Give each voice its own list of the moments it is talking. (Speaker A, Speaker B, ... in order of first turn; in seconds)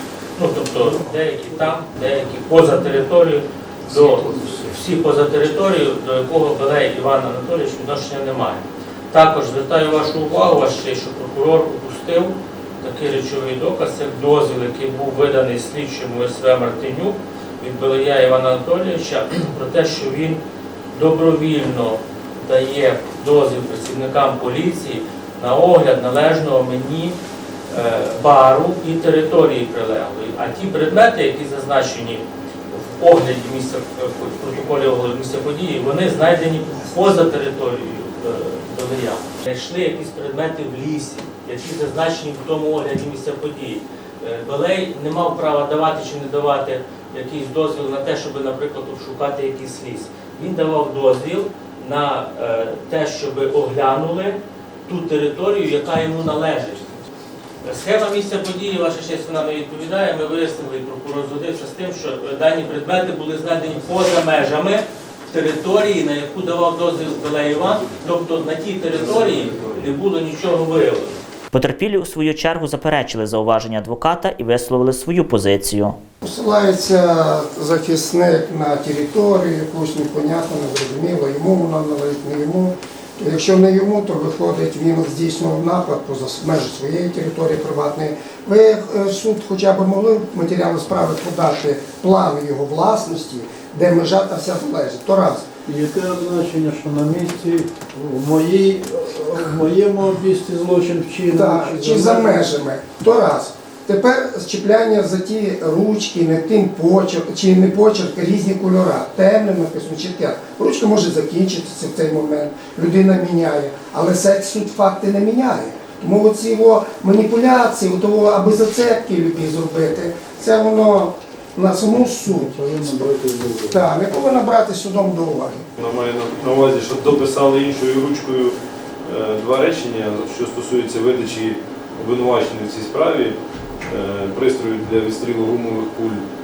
Speaker A: 0.4-20.4, 20.9-27.2, 27.7-57.0, 57.6-71.2
Speaker B: 71.5-76.0
Speaker C: 76.2-95.4, 101.3-123.1, 123.6-125.6
Speaker D: 95.7-102.4, 122.3-123.8
Speaker E: 125.8-136.2